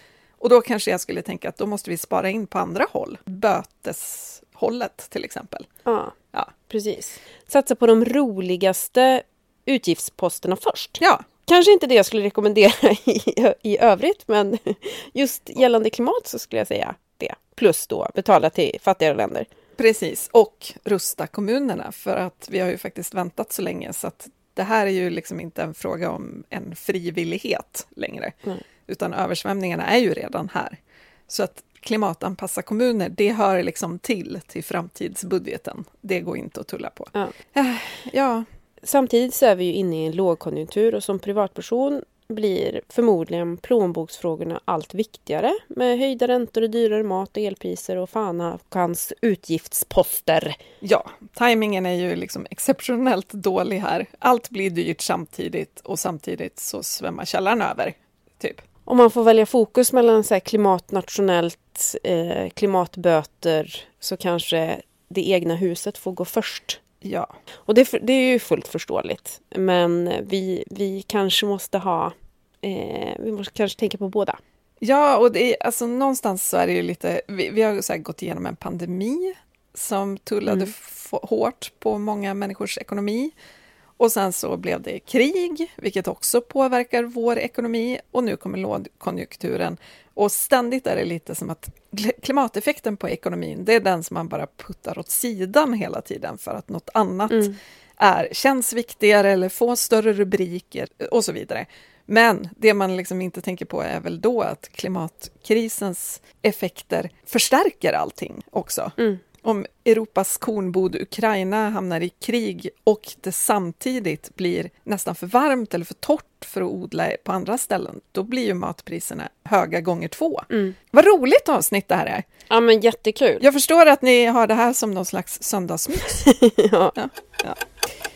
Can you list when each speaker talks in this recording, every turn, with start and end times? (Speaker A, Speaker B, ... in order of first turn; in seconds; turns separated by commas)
Speaker A: 0.4-5.7, Speaker B: 5.8-6.1, Speaker B: 6.7-19.5, Speaker A: 19.8-28.4, Speaker A: 28.9-30.8, Speaker A: 31.3-38.5, Speaker B: 38.8-50.6, Speaker A: 50.8-58.6, Speaker B: 58.9-66.8, Speaker A: 67.0-67.3, Speaker B: 67.7-74.4, Speaker A: 74.8-83.3, Speaker A: 84.0-122.2, Speaker B: 97.3-97.5, Speaker B: 120.5-120.7, Speaker B: 122.5-123.4, Speaker A: 123.4-126.3, Speaker B: 126.2-126.9, Speaker A: 126.9-127.6